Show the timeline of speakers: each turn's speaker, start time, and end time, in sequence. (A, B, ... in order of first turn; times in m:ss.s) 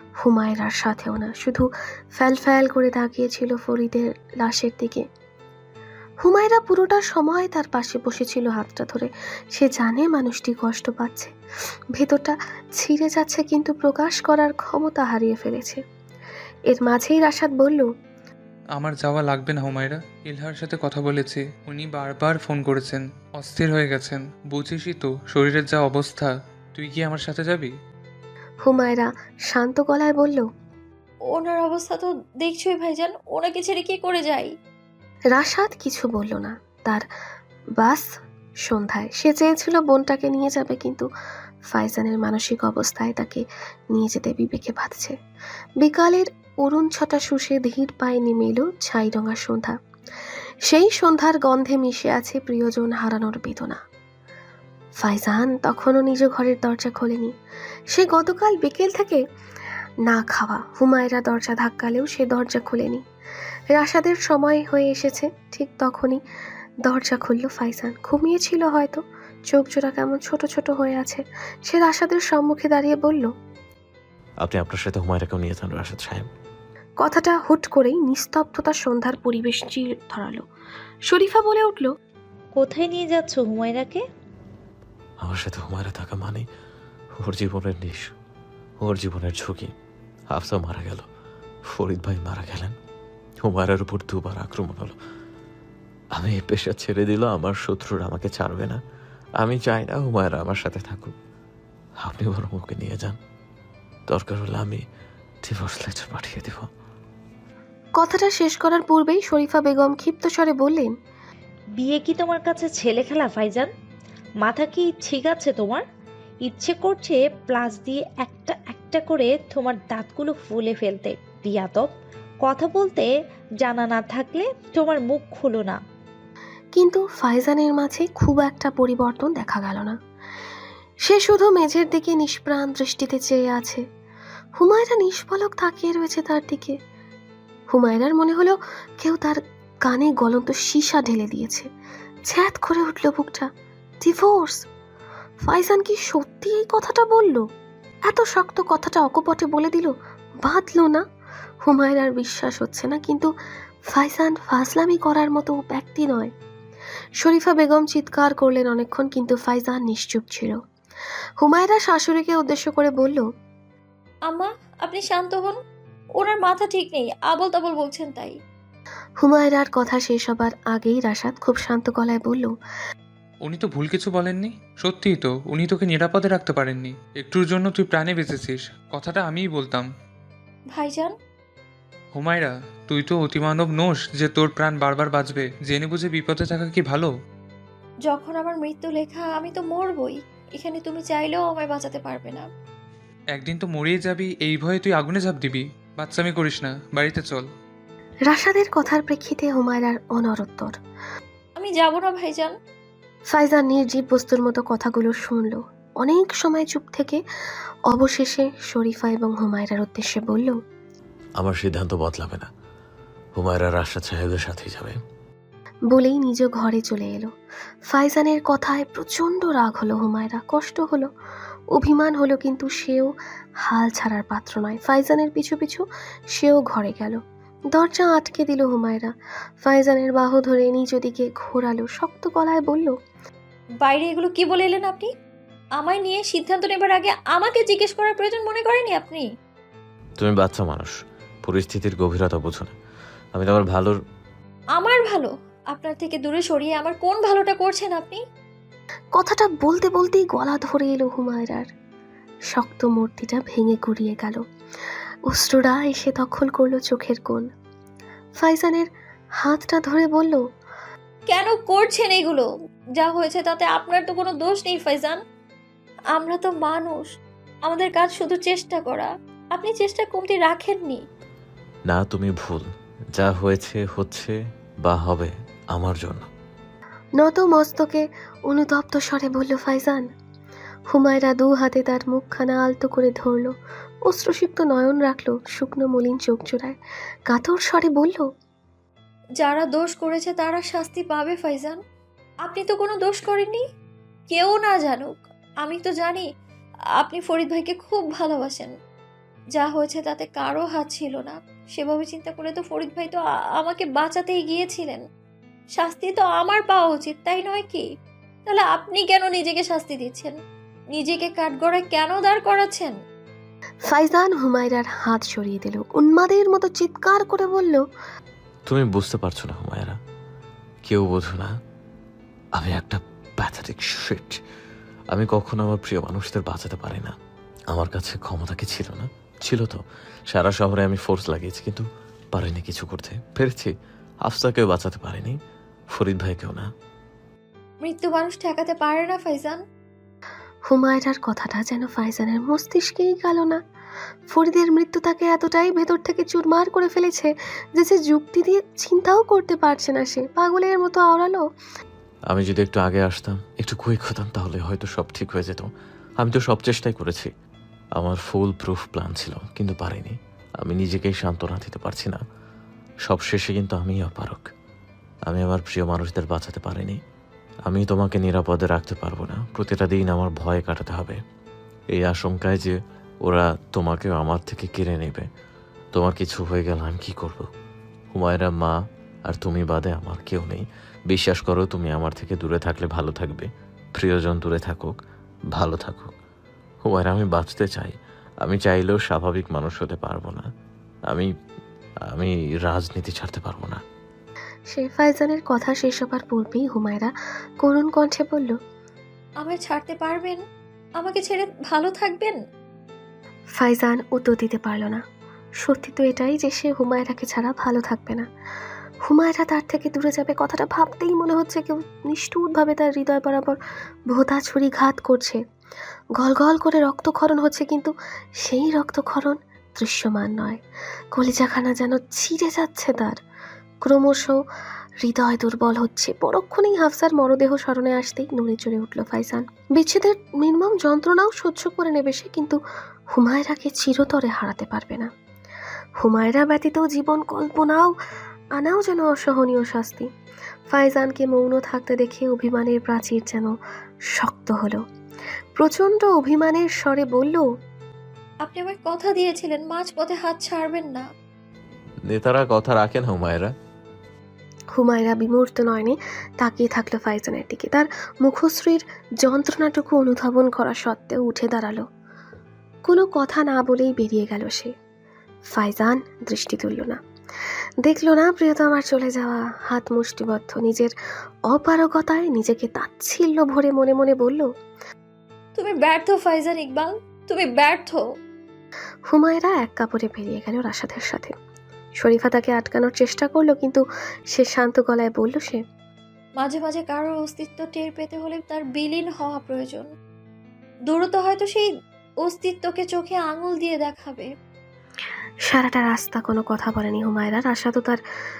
0:00.2-0:05.0 A
0:06.2-0:11.3 A
0:11.9-0:15.8 A
0:16.7-0:17.9 A
0:18.8-0:27.7 B
0:28.6-0:30.5 A
0:31.3-0:34.5 C
0:35.3-0:37.0 A
0:37.8-0:38.1 A
0:38.6-0:41.1 A
0:41.7-0:45.2 A
0:45.8-0:49.8 A
0:50.6-0:53.8 A
0:55.0-0:57.3 A
0:57.9-0:59.2 A
1:00.1-1:03.0 A
1:03.7-1:06.2 A
1:06.8-1:13.3 A
1:14.4-1:16.3 D
1:17.0-1:20.4 A
1:21.1-1:21.9 A
1:22.6-1:24.0 E
1:25.2-1:26.4 D
1:27.2-1:28.1 D
1:28.8-1:29.7 D
1:30.3-1:31.0 D
1:31.7-1:32.7 D
1:33.4-1:35.0 D
1:36.2-1:38.8 D
1:39.4-1:41.1 D
1:42.0-1:43.2 D
1:44.1-1:44.8 D
1:45.4-1:46.7 D
1:48.0-1:50.9 A
1:51.8-1:53.7 E
1:54.4-1:55.8 E
1:56.5-2:01.9 E
2:02.4-2:03.1 E
2:03.6-2:05.8 E
2:06.7-2:10.0 A
2:11.0-2:13.8 A
2:14.6-2:16.8 A
2:17.7-2:21.7 A
2:22.3-2:23.5 A
2:24.0-2:24.6 A
2:25.4-2:27.4 A
2:28.0-2:31.0 A
2:31.6-2:33.3 A
2:33.9-2:36.3 A
2:37.2-2:40.6 A
2:41.4-2:43.2 A
2:44.3-2:45.6 C
2:46.2-2:48.4 C
2:49.2-2:52.5 A
2:53.4-2:59.9 B
3:00.7-3:01.1 C
3:02.1-3:07.1 B
3:08.0-3:12.5 C
3:13.3-3:17.5 B
3:18.3-3:20.8 A
3:21.6-3:22.5 C
3:23.3-3:27.2 A
3:27.9-3:30.6 A
3:31.4-3:32.5 D
3:33.4-3:35.0 D
3:35.9-3:37.3 A
3:37.9-3:41.1 A
3:41.7-3:47.2 A
3:47.7-3:53.0 A
3:53.8-3:55.1 C
3:55.8-3:59.2 C
4:00.2-4:00.9 D
4:01.4-4:02.7 D
4:03.3-4:04.0 D
4:04.8-4:08.2 C
4:09.1-4:11.7 A
4:12.5-4:14.4 A
4:15.3-4:17.5 A
4:18.4-4:18.9 A
4:19.4-4:20.4 A
4:21.3-4:22.5 C
4:23.0-4:25.2 C
4:26.1-4:27.1 C
4:27.6-4:31.0 C
4:31.9-4:36.3 D
4:37.2-4:40.1 A
4:40.9-4:43.5 A
4:44.1-4:46.8 A
4:47.3-4:48.3 A
4:49.4-4:51.8 C
4:52.4-4:53.6 C
4:54.3-4:56.3 C
4:57.0-4:58.7 C
4:59.5-5:05.0 C
5:05.8-5:07.8 C
5:08.4-5:10.3 C
5:10.9-5:12.9 C
5:13.8-5:17.8 A
5:18.7-5:20.0 D
5:20.9-5:21.5 D
5:22.6-5:24.4 D
5:25.1-5:27.1 D
5:27.7-5:33.7 D
5:34.2-5:35.4 D
5:35.9-5:36.7 D
5:37.8-5:39.6 C
5:40.7-5:43.6 A
5:44.3-5:51.4 A
5:52.3-5:55.7 D
5:56.2-5:57.3 D
5:58.0-6:02.2 D
6:03.0-6:04.5 D
6:05.3-6:07.0 D
6:07.7-6:11.2 D
6:11.9-6:15.3 D
6:15.9-6:17.5 D
6:18.1-6:18.8 D
6:19.3-6:25.0 D
6:25.5-6:26.1 D
6:26.9-6:30.5 D
6:32.1-6:33.8 D
6:34.7-6:38.6 A
6:39.4-6:40.4 C
6:41.0-6:42.4 C
6:43.6-6:45.0 A
6:45.6-6:48.3 A
6:49.0-6:55.4 A
6:56.2-7:00.6 A
7:01.1-7:03.2 A
7:03.8-7:04.4 A
7:05.0-7:12.6 A
7:13.1-7:15.1 A
7:16.0-7:17.9 A
7:18.6-7:20.1 A
7:20.7-7:23.6 A
7:24.1-7:24.8 A
7:25.6-7:27.5 A
7:28.4-7:31.0 C
7:32.1-7:33.5 D
7:34.7-7:41.9 A
7:42.8-7:44.7 A
7:45.5-7:47.0 A
7:47.8-7:50.9 A
7:51.5-7:54.5 A
7:55.6-7:58.0 C
7:59.1-8:01.3 A
8:02.0-8:05.6 A
8:06.4-8:09.9 C
8:10.9-8:11.7 C
8:12.2-8:14.3 C
8:15.4-8:18.0 A